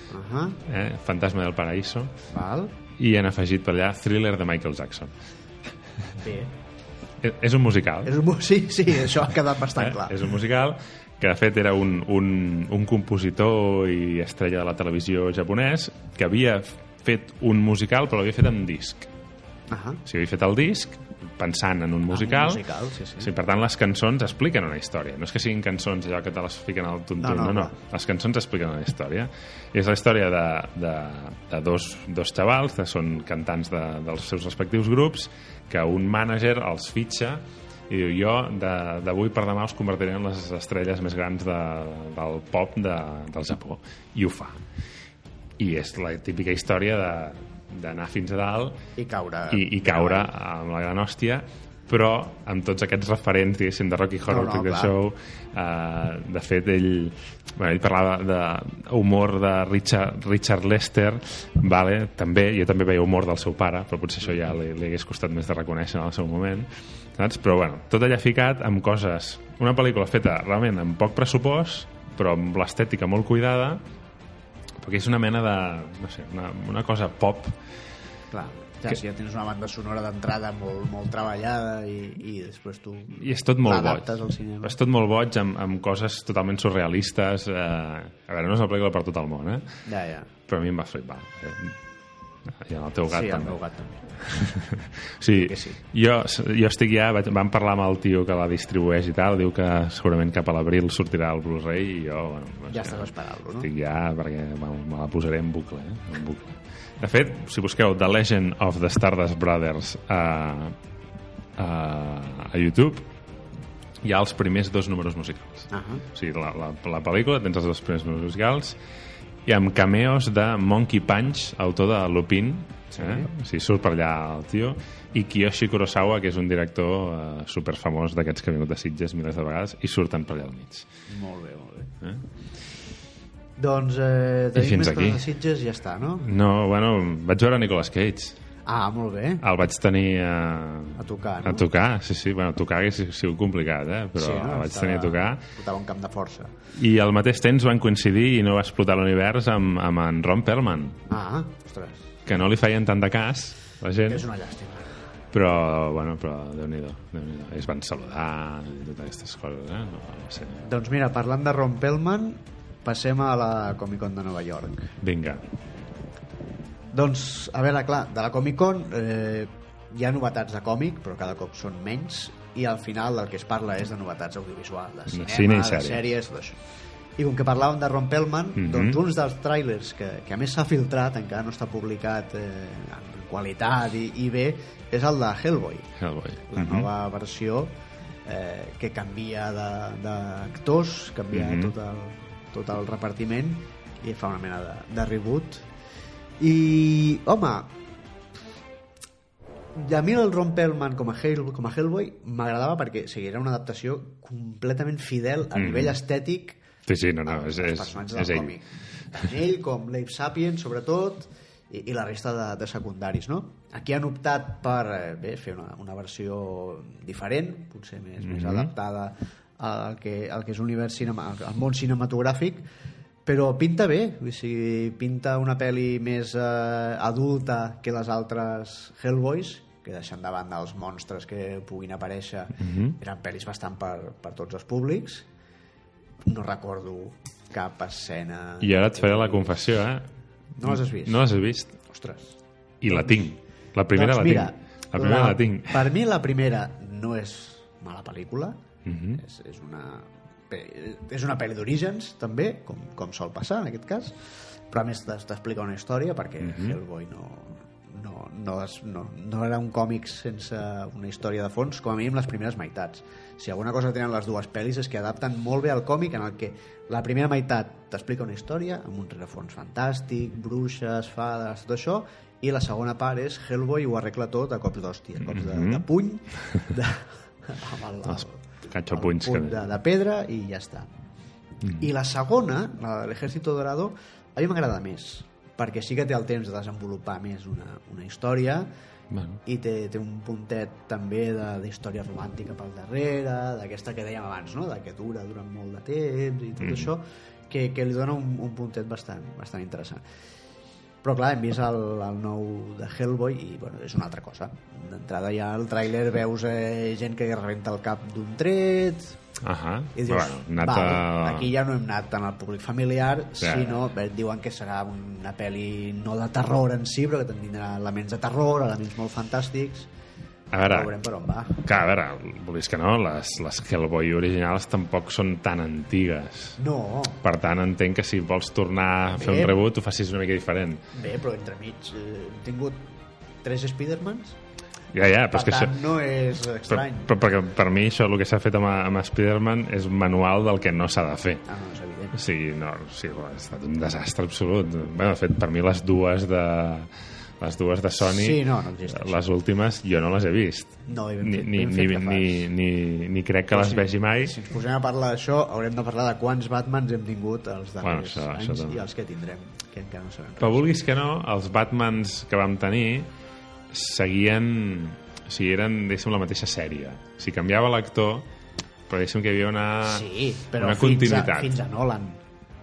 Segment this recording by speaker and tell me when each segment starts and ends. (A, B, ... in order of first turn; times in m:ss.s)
0:00.1-0:00.6 A
0:00.6-0:02.1 B
0:02.3-0:02.8 A
0:02.9-0:05.1 B
0:06.2-0:06.5 A
0:07.2-0:08.1 B
0:08.0-0:10.2 A
0:09.8-0:19.1 B
0:19.7-0:20.0 A
0:20.1-0:22.6 B
0:22.1-0:23.3 A
0:23.2-0:44.6 B
0:27.2-0:27.7 A
0:45.6-0:48.8 B
0:49.0-0:50.3 A
0:49.5-1:13.8 B
0:54.3-0:54.9 A
1:14.8-1:17.6 B
1:18.3-1:24.8 A
1:23.2-1:29.8 B
1:29.9-1:30.3 A
1:30.5-1:31.8 B
1:32.5-1:33.6 B
1:33.1-1:34.2 A
1:34.2-1:50.8 B
1:35.4-1:35.8 A
1:42.7-1:43.7 A
1:51.6-1:53.1 B
1:54.0-1:58.8 B
1:55.7-1:56.0 A
1:59.5-2:10.9 B
2:03.0-2:03.3 A
2:11.1-2:12.0 A
2:13.6-2:16.3 A
2:14.6-2:15.2 B
2:16.2-2:18.4 B
2:18.7-2:19.4 A
2:19.4-2:25.4 B
2:21.0-2:21.7 A
2:24.2-2:26.5 A
2:26.7-2:31.0 B
2:31.1-2:32.2 A
2:32.3-2:34.2 B
2:34.1-2:35.0 A
2:35.3-2:40.6 B
2:40.6-2:44.9 A
2:45.0-2:45.4 B
2:46.9-2:56.6 A
2:55.1-2:56.1 B
2:57.2-3:05.9 A
2:58.6-2:59.0 B
3:06.0-3:06.9 B
3:06.5-3:15.7 A
3:11.3-3:11.7 B
3:16.4-3:17.8 A
3:19.8-3:26.6 A
3:25.6-3:26.0 B
3:26.9-3:28.6 B
3:27.3-3:42.6 A
3:38.2-3:38.7 B
3:43.3-3:55.3 A
3:52.6-3:53.0 B
3:56.2-3:59.6 A
3:58.6-4:00.1 B
4:00.6-4:01.3 A
4:00.6-4:01.8 B
4:01.9-4:02.4 A
4:02.8-4:05.8 B
4:02.9-4:03.2 A
4:03.9-4:08.6 A
4:08.8-4:09.2 B
4:09.2-4:14.2 A
4:14.7-4:40.9 A
4:16.4-4:16.8 B
4:35.3-4:35.9 B
4:38.1-4:39.6 B
4:41.7-4:48.7 A
4:49.1-4:49.4 B
4:49.4-5:00.0 A
4:56.6-4:56.9 B
5:01.0-5:09.2 A
5:09.4-5:11.5 B
5:10.0-5:19.9 A
5:13.4-5:13.8 B
5:20.5-5:20.9 B
5:20.7-5:21.7 A
5:21.6-5:26.6 B
5:26.6-5:27.2 A
5:27.2-5:30.8 B
5:29.2-5:29.6 A
5:30.9-5:32.9 A
5:33.4-5:34.4 A
5:34.9-5:35.7 B
5:35.3-5:37.1 A
5:36.7-5:41.4 B
5:41.5-5:42.2 A
5:42.1-5:54.4 B
5:48.0-5:49.2 A
5:50.9-5:52.5 A
5:53.5-6:00.7 A
5:57.8-5:58.8 B
6:00.4-6:03.1 B
6:03.7-6:08.3 B
6:08.9-6:11.6 B
6:09.8-6:12.2 A